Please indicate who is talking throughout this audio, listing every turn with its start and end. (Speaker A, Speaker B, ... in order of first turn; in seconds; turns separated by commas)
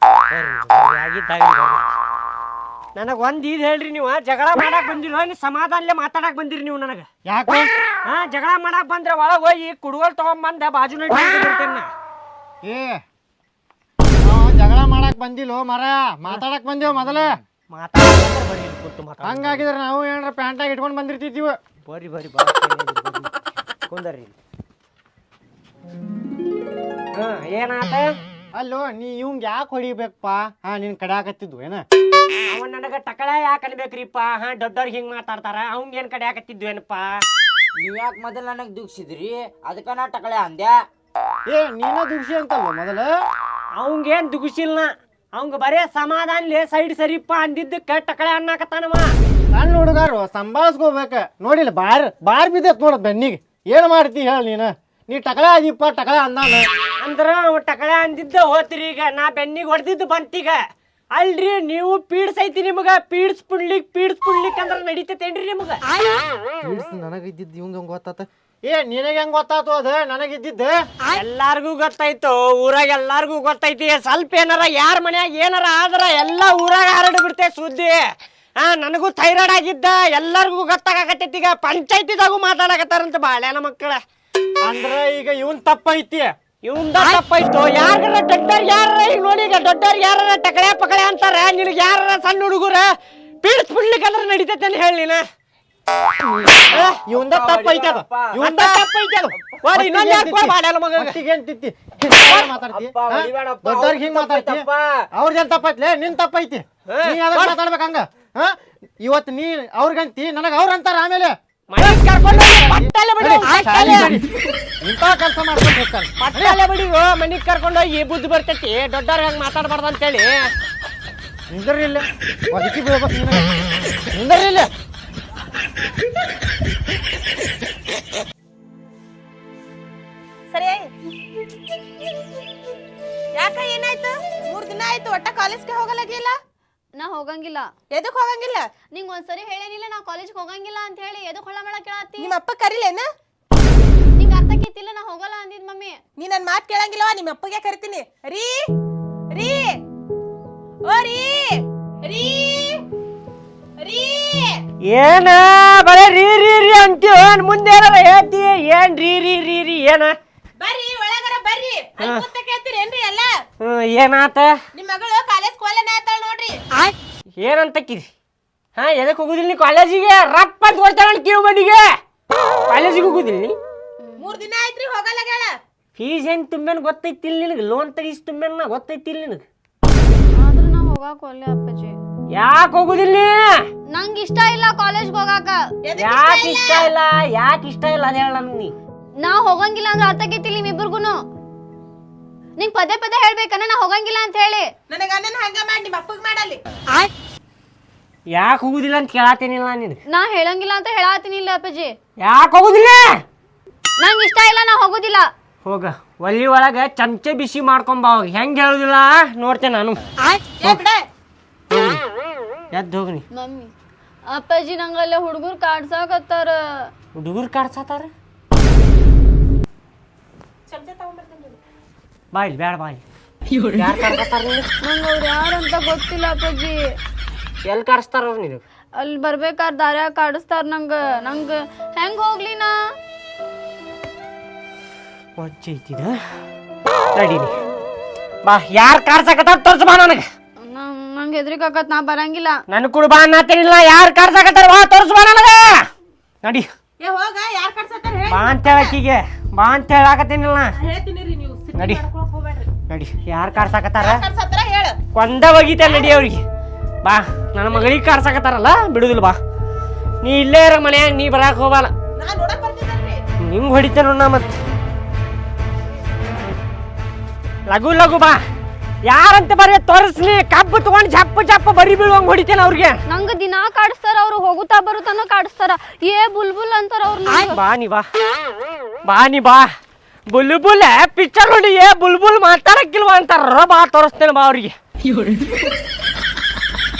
Speaker A: 0.3-1.9, Speaker A: 3.0-7.1, Speaker B: 7.2-7.7, Speaker A: 8.1-11.9, Speaker B: 12.6-13.0, Speaker B: 14.2-17.4, Speaker A: 17.7-19.6, Speaker B: 19.2-21.6, Speaker A: 21.9-23.3, Speaker A: 23.9-24.3, Speaker A: 27.1-28.1, Speaker B: 28.5-31.8, Speaker A: 32.5-37.2, Speaker C: 37.7-40.8, Speaker B: 41.5-43.1, Speaker A: 43.8-49.1, Speaker B: 49.5-56.6, Speaker A: 57.0-60.6, Speaker A: 61.1-65.8, Speaker B: 66.6-70.8, Speaker A: 71.1-78.0, Speaker A: 78.6-84.0, Speaker B: 84.7-86.3, Speaker A: 86.6-92.9, Speaker A: 93.4-95.2, Speaker B: 96.2-114.3, Speaker A: 96.7-97.0, Speaker C: 97.1-98.4, Speaker A: 98.4-101.2, Speaker C: 102.5-105.0, Speaker A: 106.9-107.5, Speaker A: 111.7-114.1, Speaker B: 114.8-116.6, Speaker A: 116.2-120.5, Speaker B: 121.5-123.5, Speaker B: 124.1-124.7, Speaker D: 130.5-130.9, Speaker D: 133.4-136.3, Speaker E: 136.9-137.7, Speaker D: 137.9-138.6, Speaker E: 138.9-142.3, Speaker D: 142.2-143.1, Speaker E: 144.2-146.0, Speaker D: 146.2-148.5, Speaker D: 149.3-149.7, Speaker D: 150.8-152.8, Speaker D: 153.8-154.6, Speaker A: 154.9-160.1, Speaker D: 160.6-163.3, Speaker A: 162.0-162.3, Speaker A: 163.6-164.5, Speaker D: 164.7-166.6, Speaker A: 167.4-168.1, Speaker A: 168.8-171.8, Speaker A: 172.7-173.6, Speaker E: 174.0-174.4, Speaker D: 174.2-175.5, Speaker A: 175.9-179.4, Speaker E: 180.4-182.0, Speaker A: 182.3-183.6, Speaker E: 183.9-185.6, Speaker D: 185.9-186.9, Speaker A: 186.0-188.7, Speaker E: 189.2-191.2, Speaker E: 192.6-194.7, Speaker D: 194.9-196.6, Speaker A: 198.3-200.0, Speaker E: 200.1-201.9, Speaker A: 202.2-203.2, Speaker E: 204.0-205.2, Speaker A: 205.6-210.1, Speaker D: 210.6-211.0, Speaker A: 211.7-212.0, Speaker A: 212.7-213.2, Speaker E: 213.3-213.7, Speaker E: 214.3-216.9, Speaker A: 217.2-218.1, Speaker D: 220.7-221.6, Speaker A: 222.3-223.0, Speaker A: 223.7-224.7, Speaker E: 224.8-226.8, Speaker A: 227.7-228.6, Speaker E: 229.0-232.7, Speaker A: 235.4-236.2, Speaker A: 237.1-237.5, Speaker A: 238.4-240.2, Speaker E: 240.6-242.6, Speaker A: 242.7-245.8, Speaker A: 246.4-246.7, Speaker D: 247.0-249.0, Speaker A: 248.3-250.7, Speaker D: 250.8-252.7, Speaker A: 251.7-252.0, Speaker A: 252.9-254.2, Speaker D: 254.0-254.9, Speaker A: 255.1-256.4, Speaker D: 255.8-256.1, Speaker A: 257.0-259.4, Speaker A: 260.2-261.9, Speaker D: 262.2-263.2, Speaker A: 263.4-264.6, Speaker A: 267.7-268.4, Speaker A: 269.1-273.0, Speaker E: 273.1-277.6, Speaker A: 277.4-278.1, Speaker A: 279.1-279.7, Speaker A: 280.3-284.7